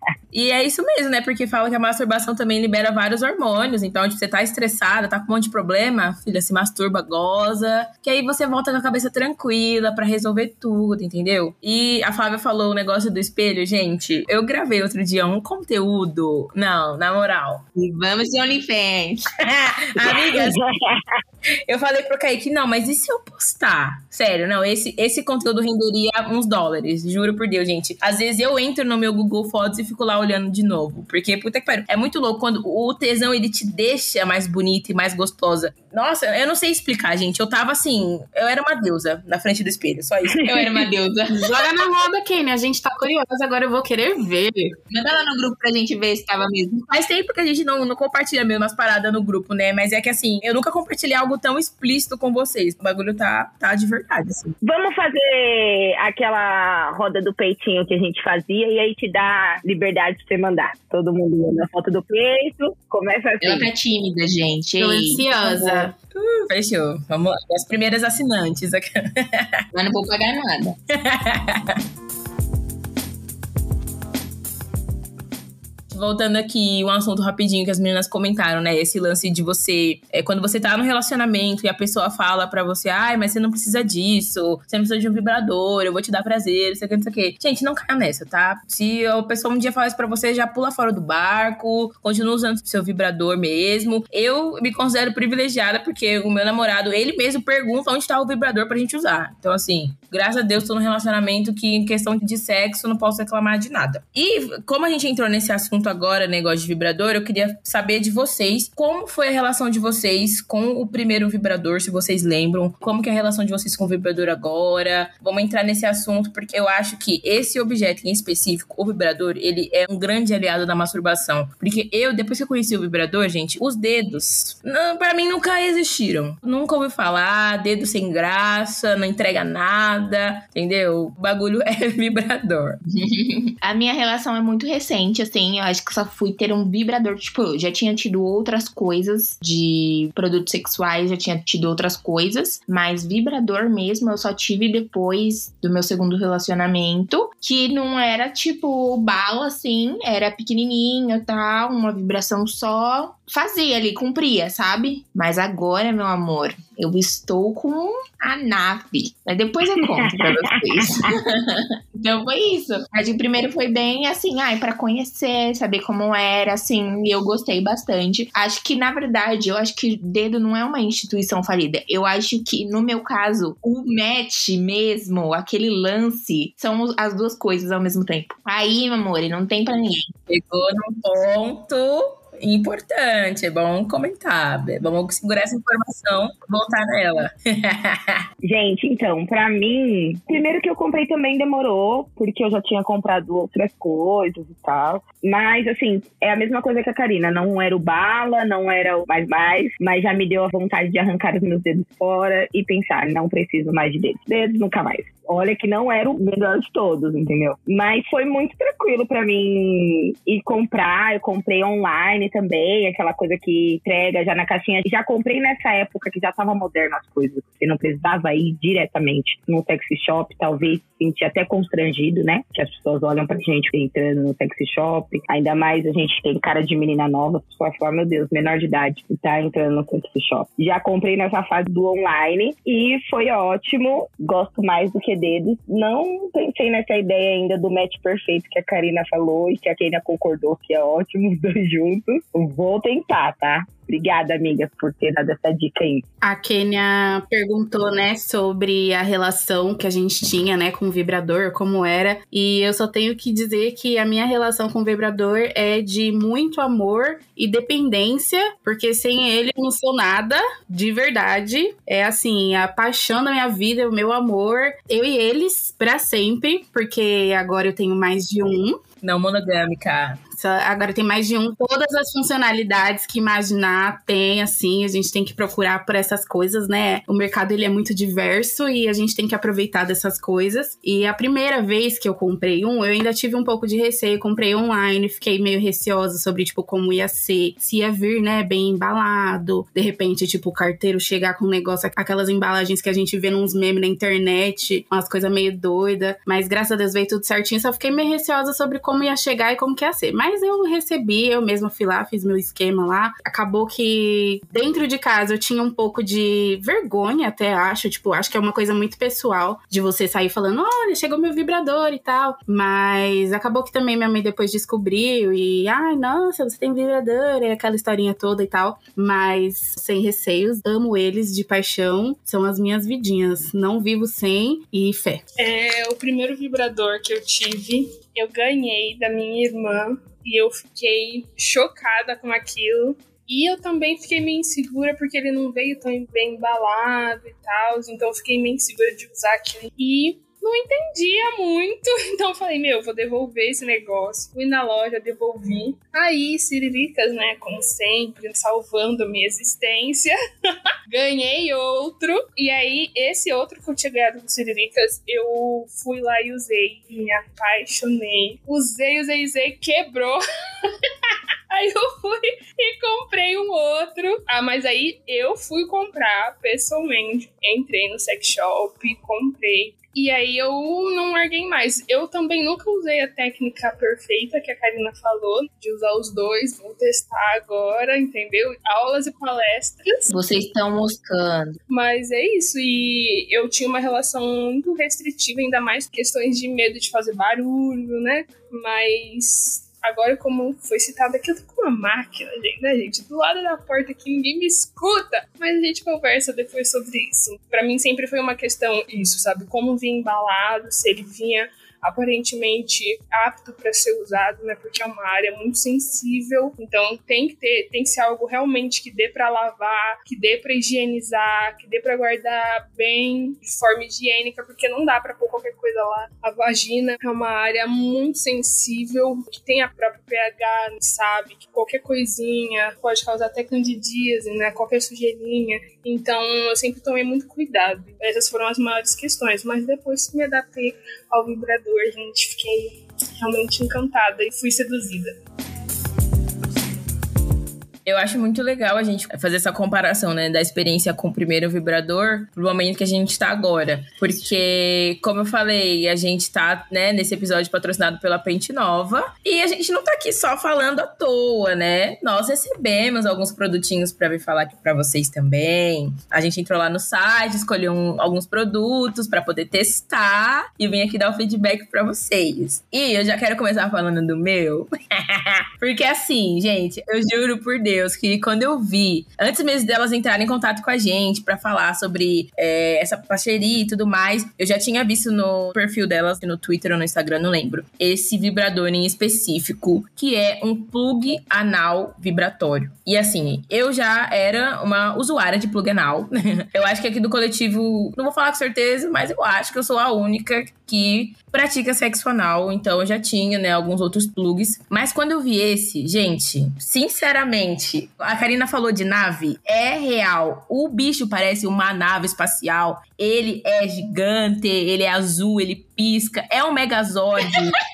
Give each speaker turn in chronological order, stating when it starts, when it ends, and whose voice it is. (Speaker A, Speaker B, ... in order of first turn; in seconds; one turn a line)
Speaker A: 0.3-17.6
Speaker B: 17.7-19.2
Speaker A: 19.4-20.6
Speaker C: 20.0-21.0
Speaker A: 21.7-40.9
Speaker B: 40.5-41.5
Speaker D: 41.3-44.7
Speaker B: 44.9-46.9
Speaker A: 46.9-54.5
Speaker C: 54.6-63.7
Speaker B: 63.4-65.9
Speaker D: 64.8-65.9
Speaker A: 66.1-69.6
Speaker B: 69.7-70.8
Speaker A: 70.9-71.8
Speaker A: 75.9-132.8
Speaker B: 132.8-180.1
Speaker C: 159.9-160.2
Speaker C: 160.9-161.1
Speaker A: 180.3-188.2
Speaker C: 188.4-246.0
Speaker D: 246.2-268.8
Speaker A: 269.0-270.2
Speaker D: 270.3-325.2
Speaker E: 325.4-350.1
Speaker E: 350.9-380.1
Speaker B: 380.1-381.6
Speaker E: 381.7-435.2
Speaker A: 437.8-507.6